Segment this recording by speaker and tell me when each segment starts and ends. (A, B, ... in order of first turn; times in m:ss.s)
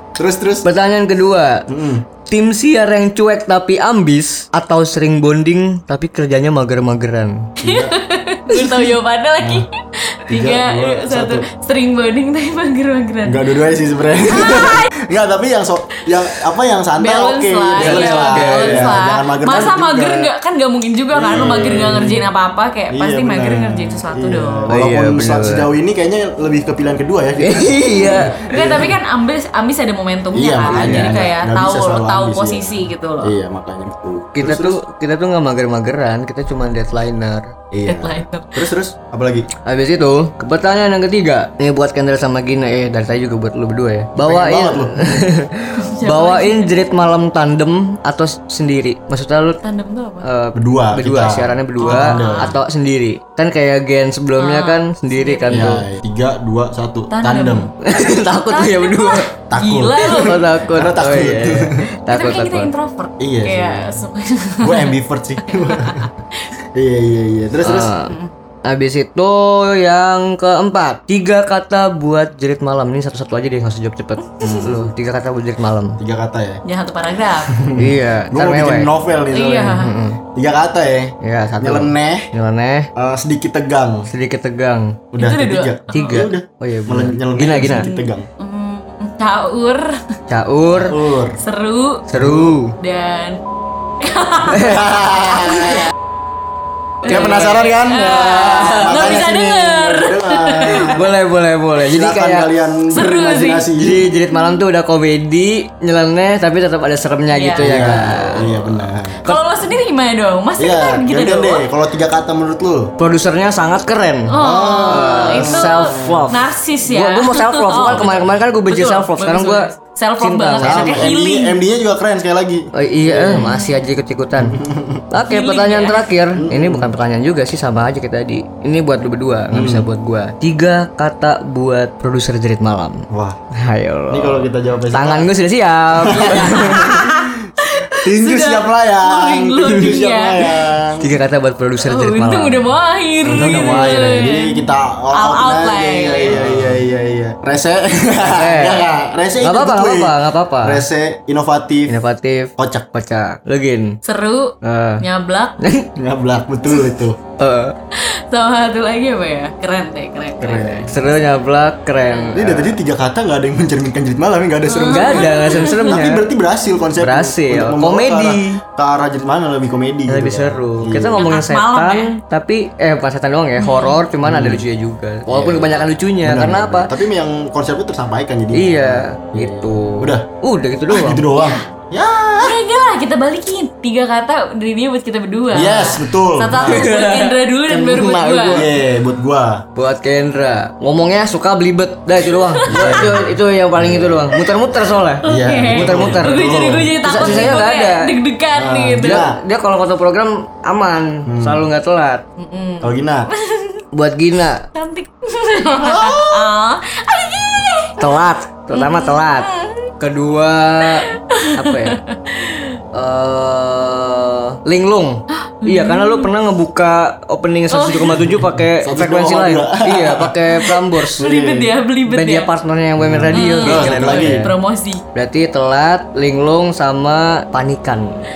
0:00.2-0:00.6 A
0:00.6-0:01.6 B
0:01.7-0:02.0 A
0:02.3-0:07.5 B
0:07.6-0:08.0 A
0:07.6-0:13.6 C
0:08.5-0:08.9 B
0:09.4-0:09.6 A
0:10.3-0:11.4 A
0:13.2-0:20.3 A
0:14.3-0:14.9 C
0:17.0-0:24.7 C
0:17.8-0:18.9 B
0:21.1-0:22.3 A
0:22.9-0:29.0 A
0:24.7-0:25.7 B
0:27.4-0:28.8 B
0:28.6-0:33.4 C
0:30.3-0:34.8 A
0:30.7-0:31.1 B
0:34.4-0:37.5 B
0:37.7-0:39.5 A
0:37.8-0:38.6 C
0:39.6-0:49.6 B
0:44.2-0:45.2 A
0:45.8-0:46.8 C
0:49.6-0:50.3 C
0:50.2-0:55.8 B
0:50.5-0:52.6 A
0:51.8-0:52.6 C
0:54.4-0:55.7 C
0:55.5-0:57.7 A
0:57.1-1:00.4 C
0:57.8-0:59.3 B
0:59.5-1:01.8 A
1:00.1-1:02.7 B
1:02.1-1:06.1 C
1:03.2-1:04.0 A
1:04.6-1:06.1 A
1:06.7-1:07.9 A
1:07.6-1:08.1 B
1:08.6-1:16.0 B
1:14.4-1:14.6 C
1:14.4-1:14.9 A
1:16.0-1:16.6 A
1:16.6-1:17.6 C
1:17.5-1:19.8 A
1:17.8-1:18.9 B
1:19.3-1:19.9 C
1:19.8-1:20.2 B
1:20.3-1:22.3 A
1:21.2-1:22.9 B
1:23.0-1:24.1 A
1:24.1-1:25.0 B
1:25.1-1:28.3 A
1:25.2-1:26.2 C
1:25.9-1:27.9 B
1:27.7-1:30.0 C
1:30.3-1:31.0 B
1:30.7-1:31.4 A
1:31.4-1:32.0 C
1:32.1-1:32.7 B
1:32.1-1:32.6 A
1:32.8-1:33.4 C
1:34.0-1:35.9 C
1:34.5-1:34.9 B
1:34.7-1:35.9 A
1:37.0-1:39.2 B
1:37.0-1:41.1 A
1:37.1-1:40.9 C
1:40.7-1:42.5 B
1:41.8-1:44.1 A
1:42.9-1:43.7 C
1:43.8-1:48.9 B
1:47.3-1:47.8 C
1:47.6-1:49.4 A
1:49.2-1:51.6 C
1:50.6-1:52.9 A
1:53.0-1:59.7 B
1:54.3-2:01.6 C
1:54.4-1:56.3 A
2:00.2-2:01.1 B
2:00.6-2:03.5 A
2:02.7-2:04.6 B
2:03.3-2:03.8 C
2:04.4-2:05.0 A
2:05.1-2:13.0 B
2:05.3-2:06.0 C
2:06.3-2:06.9 A
2:09.5-2:09.9 A
2:13.1-2:13.4 A
2:13.6-2:16.8 B
2:14.1-2:15.3 A
2:16.0-2:21.0 A
2:16.0-2:20.6 C
2:21.0-2:22.7 B
2:21.8-2:26.4 C
2:23.2-2:31.9 A
2:23.3-2:23.9 B
2:26.3-2:26.8 B
2:28.2-2:28.9 B
2:29.4-2:30.8 B
2:31.9-2:34.0 B
2:32.6-2:32.9 A
2:34.0-2:35.6 C
2:34.6-2:35.0 B
2:35.6-2:35.9 B
2:35.9-2:37.2 A
2:37.4-2:37.8 B
2:37.9-2:40.9 C
2:40.4-2:40.9 A
2:40.8-2:42.8 B
2:42.1-2:42.4 C
2:42.3-2:51.2 A
2:44.6-2:45.9 C
2:44.9-2:46.2 B
2:47.0-2:48.6 B
2:50.1-2:56.9 B
2:51.2-2:52.2 C
2:53.6-2:54.0 C
2:54.2-2:54.6 A
2:55.3-3:00.2 A
2:58.5-3:01.2 B
3:00.9-3:02.6 A
3:01.3-3:01.6 C
3:02.4-3:08.6 C
3:05.5-3:06.9 A
3:06.6-3:08.7 B
3:08.5-3:09.6 A
3:09.8-3:16.4 B
3:12.3-3:13.0 C
3:12.7-3:14.4 A
3:15.2-3:17.6 A
3:15.2-3:19.2 C
3:17.0-3:18.1 B
3:18.5-3:19.4 A
3:19.0-3:22.2 B
3:21.2-3:21.6 A
3:22.4-3:23.8 C
3:22.8-3:23.3 A
3:23.9-3:24.6 B
3:24.7-3:28.0 C
3:25.8-3:26.5 A
3:28.0-3:29.5 B
3:28.7-3:29.9 C
3:30.0-3:32.0 B
3:31.0-3:32.8 C
3:32.9-3:41.2 B
3:35.4-3:36.3 C
3:37.7-3:38.2 C
3:38.4-3:40.4 A
3:41.1-3:41.7 A
3:41.2-3:42.5 C
3:42.1-3:44.5 B
3:43.0-3:44.5 A
3:43.3-3:45.0 C
3:45.1-3:48.1 B